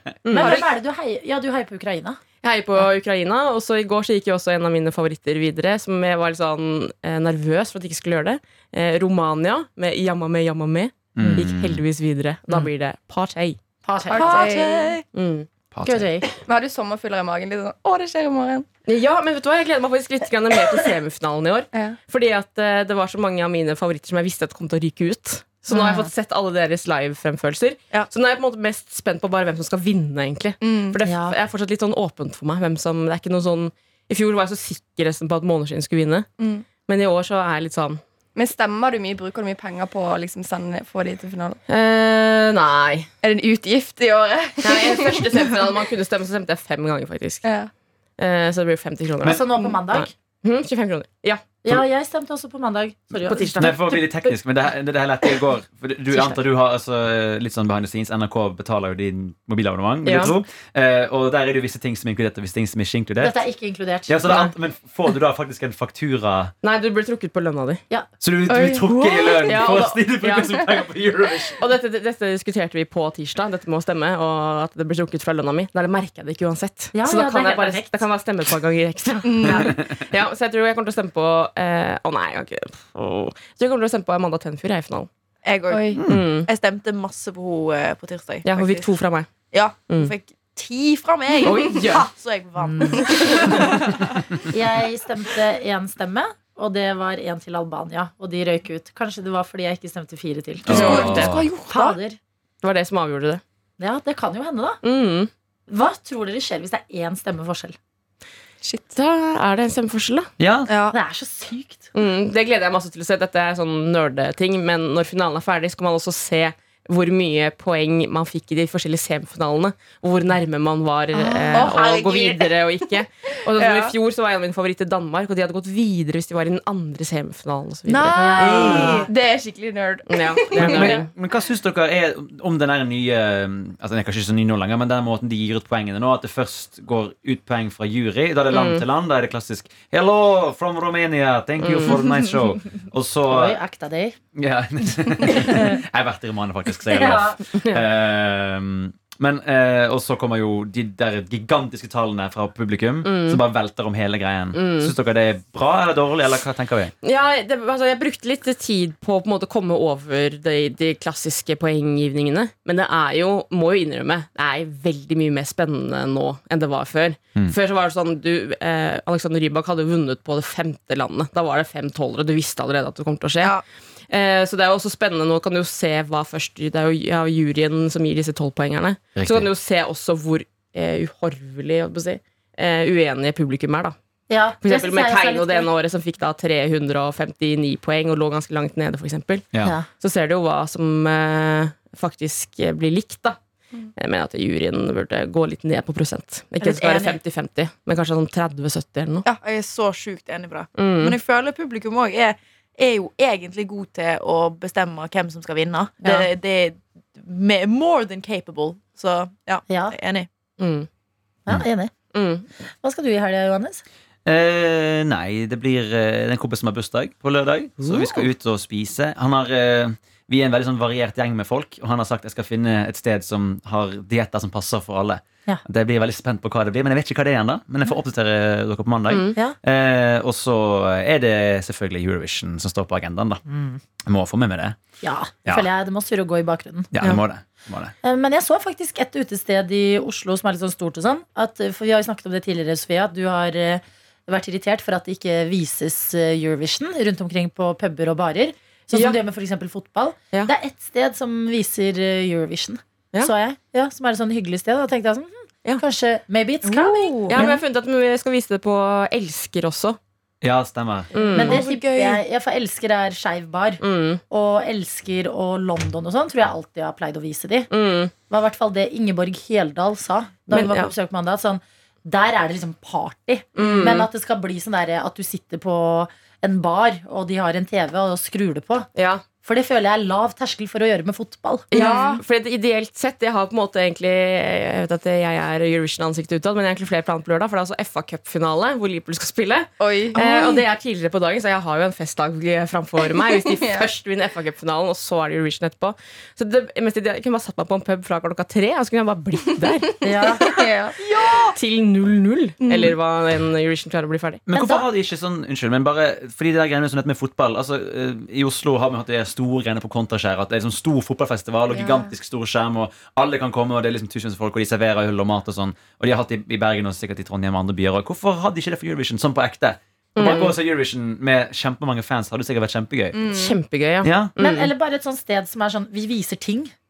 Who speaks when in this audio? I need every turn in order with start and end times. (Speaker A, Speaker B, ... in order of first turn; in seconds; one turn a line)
Speaker A: 0.2-0.6
Speaker B: 0.3-2.2
Speaker C: 0.4-0.7
Speaker A: 2.4-13.6
Speaker D: 11.1-11.8
Speaker B: 11.2-11.5
Speaker B: 13.8-14.6
Speaker C: 14.1-15.0
Speaker E: 14.1-15.0
Speaker A: 15.1-15.5
Speaker D: 15.7-16.3
Speaker B: 15.8-16.3
Speaker C: 16.4-18.7
Speaker A: 18.9-36.3
Speaker C: 21.7-22.0
Speaker B: 25.7-26.1
Speaker C: 30.6-31.0
Speaker B: 31.0-31.4
Speaker C: 36.4-36.6
Speaker A: 36.9-38.0
Speaker C: 38.3-41.6
Speaker A: 41.7-43.1
Speaker C: 43.2-45.3
Speaker A: 44.6-47.4
Speaker C: 47.4-47.7
Speaker A: 48.2-51.5
Speaker B: 49.2-50.1
Speaker B: 51.6-53.8
Speaker A: 53.2-54.1
Speaker D: 53.5-63.4
Speaker A: 60.0-60.3
Speaker B: 63.2-64.5
Speaker D: 64.1-66.5
Speaker A: 66.6-67.8
Speaker D: 68.2-71.6
Speaker C: 68.5-69.4
Speaker A: 69.5-70.6
Speaker A: 71.6-85.1
Speaker B: 76.9-78.0
Speaker C: 79.2-79.7
Speaker E: 85.4-88.9
Speaker C: 85.7-86.0
Speaker A: 86.1-86.5
Speaker A: 88.4-89.3
Speaker E: 89.5-94.0
Speaker A: 89.9-90.1
Speaker A: 91.4-92.1
Speaker B: 92.6-93.1
Speaker A: 93.2-93.6
Speaker B: 94.5-102.2
Speaker D: 100.7-101.5
Speaker A: 100.7-101.3
Speaker C: 100.7-101.3
Speaker E: 100.8-102.0
Speaker A: 102.6-103.4
Speaker B: 103.8-104.8
Speaker A: 104.8-105.3
Speaker B: 105.7-107.8
Speaker C: 108.6-108.9
Speaker A: 108.9-110.3
Speaker D: 110.4-110.7
Speaker E: 110.7-111.0
Speaker B: 110.9-111.9
Speaker A: 111.9-129.0
Speaker C: 121.5-122.0
Speaker E: 121.5-122.5
Speaker C: 123.6-123.9
Speaker E: 127.9-129.1
Speaker B: 128.1-129.1
Speaker C: 128.3-131.0
Speaker A: 130.1-131.1
Speaker D: 130.6-143.6
Speaker A: 138.5-138.8
Speaker A: 141.6-142.1
Speaker B: 143.3-144.2
Speaker D: 144.3-156.9
Speaker B: 145.2-145.8
Speaker B: 146.9-147.4
Speaker A: 147.5-147.8
Speaker A: 153.0-153.4
Speaker A: 154.5-154.9
Speaker A: 157.0-173.6
Speaker A: 174.1-183.9
Speaker D: 179.2-179.5
Speaker B: 184.3-185.7
Speaker A: 184.6-189.4
Speaker B: 189.6-189.9
Speaker A: 190.0-193.4
Speaker A: 193.9-199.3
Speaker E: 196.6-197.2
Speaker E: 199.2-210.3
Speaker A: 200.8-201.2
Speaker B: 209.7-209.9
Speaker A: 210.6-210.9
Speaker B: 211.4-211.9
Speaker A: 212.1-212.4
Speaker B: 212.8-213.8
Speaker D: 214.2-233.4
Speaker B: 217.8-218.3
Speaker A: 229.1-229.4
Speaker B: 233.5-233.8
Speaker D: 234.0-234.8
Speaker B: 235.0-236.9
Speaker D: 236.9-237.9
Speaker B: 238.0-257.6
Speaker A: 248.9-249.2
Speaker E: 256.7-257.4
Speaker A: 257.3-260.0
Speaker D: 260.4-261.1
Speaker A: 261.1-261.6
Speaker E: 261.3-262.2
Speaker B: 261.3-267.7
Speaker A: 263.8-264.2
Speaker A: 267.7-268.1
Speaker B: 268.3-278.9
Speaker A: 270.5-270.9
Speaker A: 273.5-274.1
Speaker A: 278.9-279.2
Speaker B: 279.4-282.0
Speaker A: 281.7-300.0
Speaker C: 281.7-282.2
Speaker C: 289.8-290.2
Speaker C: 293.3-293.9
Speaker B: 300.0-300.5
Speaker C: 300.2-300.9
Speaker E: 301.0-301.6
Speaker A: 301.5-304.4
Speaker C: 302.6-302.9
Speaker D: 304.5-323.2
Speaker B: 304.5-304.9
Speaker C: 311.7-312.1
Speaker A: 320.1-320.6
Speaker C: 323.1-323.5
Speaker A: 323.3-324.7
Speaker D: 324.0-324.3
Speaker B: 324.4-326.7